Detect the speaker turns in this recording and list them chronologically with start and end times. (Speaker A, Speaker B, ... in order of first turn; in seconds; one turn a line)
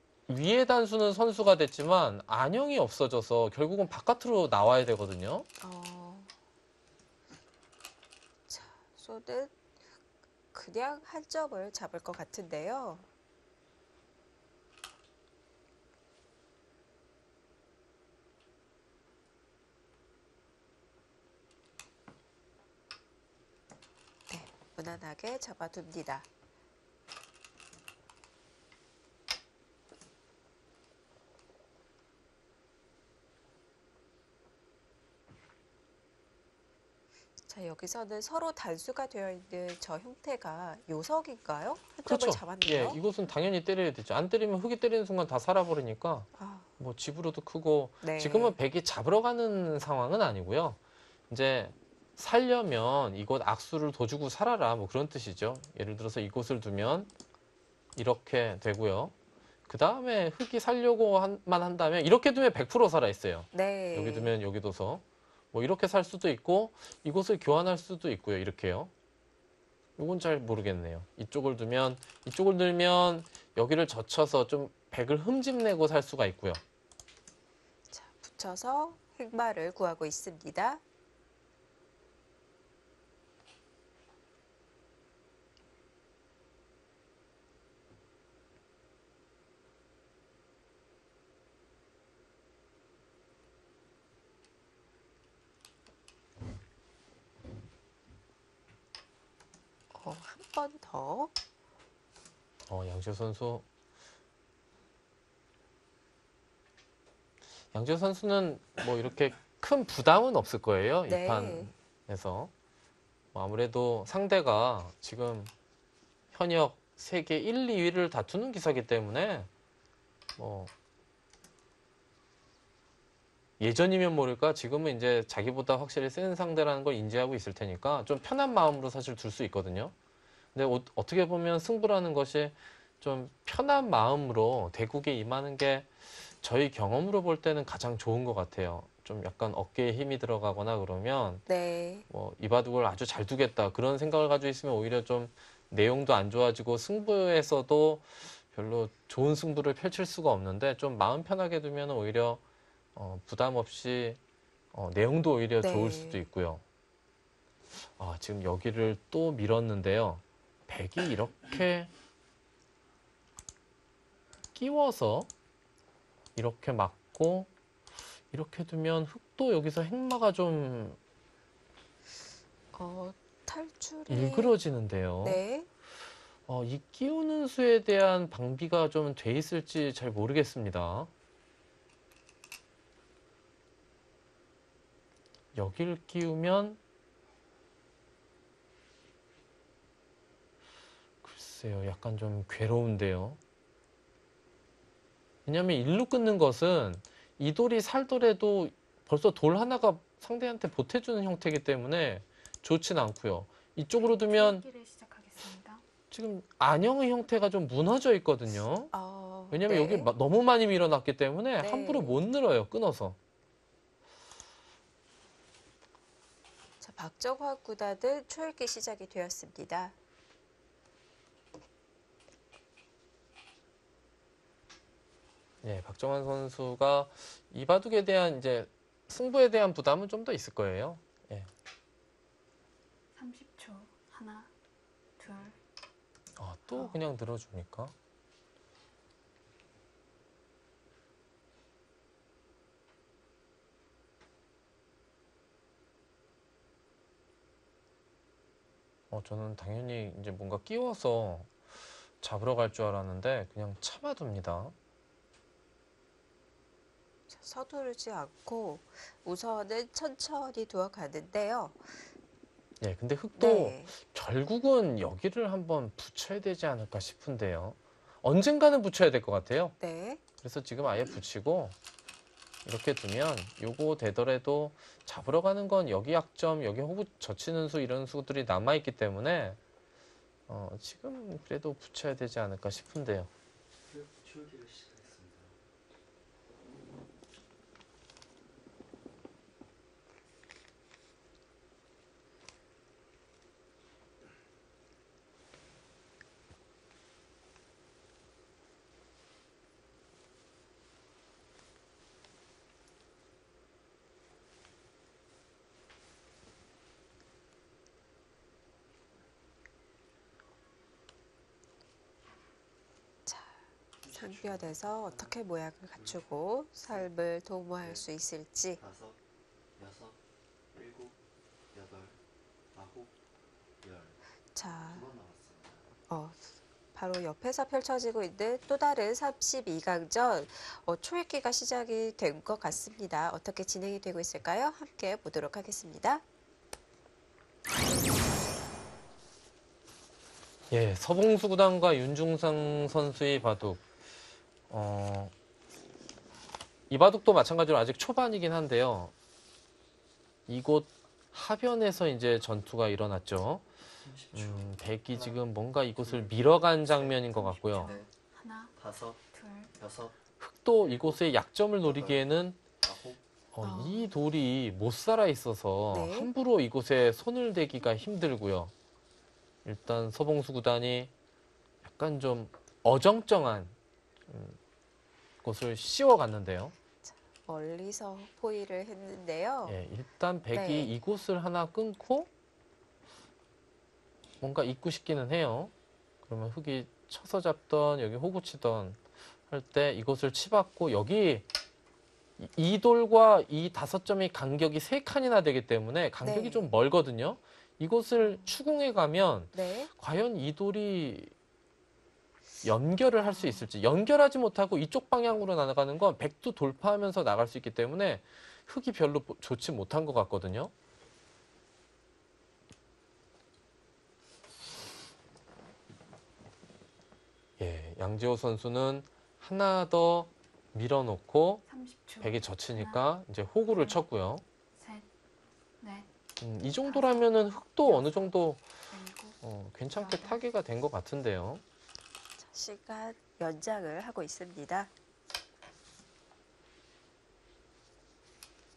Speaker A: 0.3-5.5
Speaker B: 5.6-6.3
Speaker B: 8.5-9.6
Speaker B: 10.5-13.1
Speaker B: 24.3-26.3
Speaker B: 37.5-43.0
Speaker A: 42.0-50.8
Speaker B: 46.4-46.7
Speaker B: 48.0-48.5
Speaker A: 51.3-57.1
Speaker A: 57.9-59.1
Speaker A: 59.7-68.9
Speaker B: 63.5-64.3
Speaker A: 70.0-76.6
Speaker B: 77.9-80.8
Speaker B: 99.9-101.3
Speaker A: 102.7-103.6
Speaker A: 107.7-112.5
Speaker B: 111.1-111.7
Speaker A: 113.3-115.5
Speaker A: 116.3-119.5
Speaker A: 120.4-120.7
Speaker A: 123.6-129.9
Speaker A: 130.5-141.4
Speaker B: 141.5-142.1
Speaker A: 142.1-152.4
Speaker A: 152.9-154.2
Speaker A: 154.7-156.6
Speaker B: 155.6-156.2
Speaker A: 157.8-161.9
Speaker A: 164.5-165.3
Speaker A: 166.3-167.5
Speaker A: 168.3-171.0
Speaker B: 172.7-174.5
Speaker A: 174.1-175.4
Speaker B: 175.2-175.7
Speaker A: 176.5-181.1
Speaker A: 185.5-186.8
Speaker A: 191.2-193.4
Speaker A: 195.4-204.6
Speaker C: 204.0-205.8
Speaker A: 206.1-208.9
Speaker B: 208.9-210.1
Speaker A: 209.5-213.2
Speaker B: 211.6-212.2
Speaker B: 216.8-219.9
Speaker A: 225.6-231.5
Speaker C: 233.1-234.5
Speaker C: 235.2-235.6
Speaker A: 236.4-237.9
Speaker A: 249.1-251.5
Speaker A: 252.2-254.7
Speaker B: 257.3-262.1
Speaker A: 262.8-269.7
Speaker B: 263.4-263.9
Speaker B: 269.8-270.2
Speaker A: 270.4-271.7
Speaker A: 272.6-279.6
Speaker A: 280.5-283.3
Speaker D: 283.9-285.6
Speaker B: 313.2-313.6
Speaker D: 314.0-315.4
Speaker B: 314.1-318.8
Speaker D: 315.9-316.2
Speaker D: 318.8-319.2
Speaker D: 319.8-320.2
Speaker D: 320.7-321.2
Speaker D: 321.7-322.2
Speaker D: 322.7-323.2
Speaker D: 323.8-325.9
Speaker B: 324.5-325.1
Speaker B: 326.1-336.2
Speaker A: 340.7-343.9
Speaker A: 344.7-345.3
Speaker A: 346.9-349.1
Speaker A: 350.5-353.6
Speaker D: 354.0-355.4
Speaker A: 354.3-357.9
Speaker D: 356.0-358.1
Speaker C: 357.6-358.7
Speaker D: 358.8-359.2
Speaker C: 359.3-359.7
Speaker D: 359.8-360.2
Speaker A: 360.4-362.6
Speaker D: 360.8-361.2
Speaker D: 361.8-363.2
Speaker A: 363.5-368.7
Speaker B: 363.6-364.1
Speaker B: 365.9-366.3
Speaker A: 369.6-371.1
Speaker A: 371.8-373.7
Speaker A: 374.3-374.6
Speaker A: 375.4-376.7
Speaker B: 377.0-379.8
Speaker A: 379.6-382.3
Speaker B: 380.5-380.9
Speaker A: 384.4-385.7
Speaker A: 386.2-391.4
Speaker A: 392.4-401.3
Speaker B: 396.2-396.7
Speaker B: 399.5-399.9
Speaker A: 402.6-410.7
Speaker A: 417.6-421.6
Speaker C: 421.7-423.1
Speaker A: 422.2-424.4
Speaker C: 424.8-425.1
Speaker C: 425.8-426.1
Speaker A: 426.4-428.6
Speaker C: 426.8-428.4
Speaker C: 428.9-429.4
Speaker A: 429.4-431.6
Speaker C: 429.9-430.4
Speaker B: 432.4-434.9